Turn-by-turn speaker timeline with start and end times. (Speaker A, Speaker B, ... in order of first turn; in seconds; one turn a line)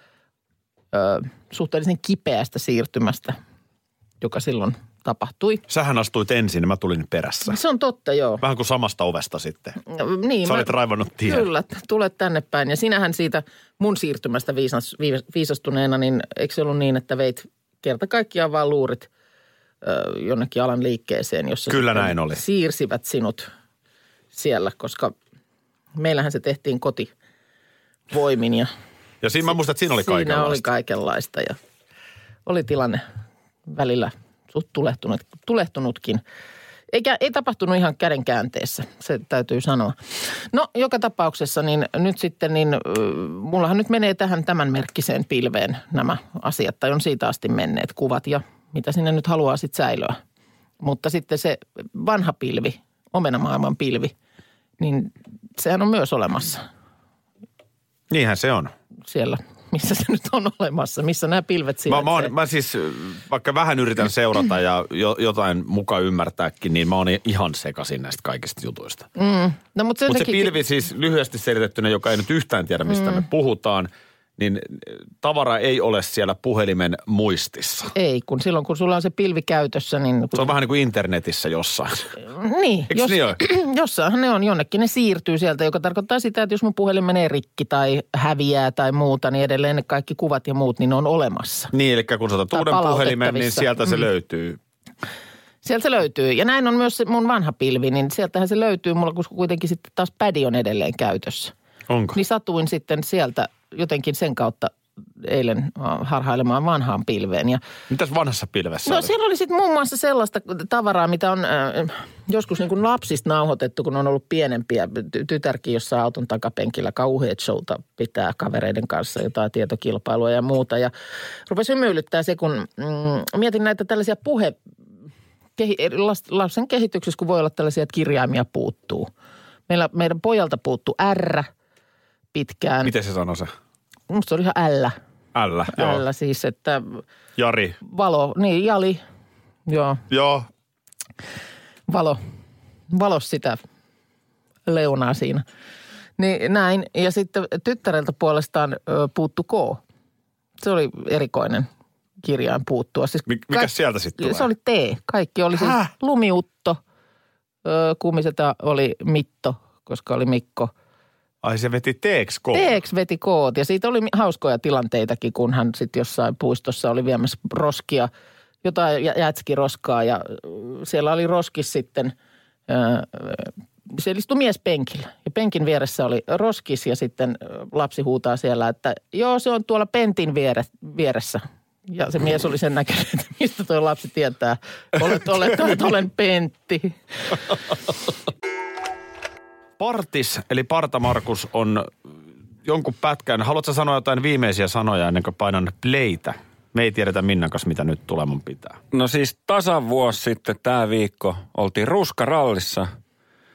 Speaker A: 0.9-3.4
Speaker A: 4.2-5.6
Speaker B: 5.7-7.6
Speaker A: 7.5-8.4
Speaker B: 8.4-9.8
Speaker A: 9.9-10.7
Speaker B: 10.4-11.5
Speaker A: 11.2-19.1
Speaker A: 19.8-23.5
Speaker B: 21.7-22.4
Speaker A: 24.3-25.1
Speaker A: 26.0-27.1
Speaker A: 28.1-28.7
Speaker B: 29.2-30.6
Speaker A: 30.0-31.6
Speaker A: 32.5-33.0
Speaker A: 33.7-36.2
Speaker A: 36.9-50.2
Speaker A: 50.8-54.1
Speaker A: 54.8-56.6
Speaker B: 58.1-58.7
Speaker A: 59.1-62.3
Speaker B: 61.9-69.1
Speaker A: 69.2-70.5
Speaker B: 70.1-77.9
Speaker A: 77.9-80.5
Speaker B: 80.3-82.1
Speaker A: 82.2-91.7
Speaker B: 82.9-83.4
Speaker B: 91.7-94.6
Speaker A: 92.5-93.9
Speaker A: 95.6-101.5
Speaker B: 101.9-102.2
Speaker A: 102.1-107.6
Speaker B: 107.9-109.1
Speaker A: 108.9-120.9
Speaker A: 121.5-124.6
Speaker A: 125.6-129.1
Speaker A: 129.7-131.5
Speaker A: 132.3-132.9
Speaker B: 132.8-133.5
Speaker A: 134.1-135.0
Speaker B: 135.3-136.0
Speaker A: 135.7-137.0
Speaker B: 137.4-137.8
Speaker A: 137.8-139.0
Speaker A: 139.7-140.0
Speaker B: 140.1-140.5
Speaker A: 141.9-142.2
Speaker A: 142.9-143.6
Speaker A: 144.7-145.4
Speaker A: 146.2-149.8
Speaker A: 150.6-151.7
Speaker A: 152.2-156.8
Speaker B: 153.3-154.5
Speaker B: 155.6-155.9
Speaker A: 157.7-160.7
Speaker B: 161.4-162.8
Speaker A: 162.5-168.1
Speaker A: 168.6-172.1
Speaker A: 172.7-187.4
Speaker B: 189.8-191.9
Speaker B: 192.7-198.8
Speaker C: 198.9-202.9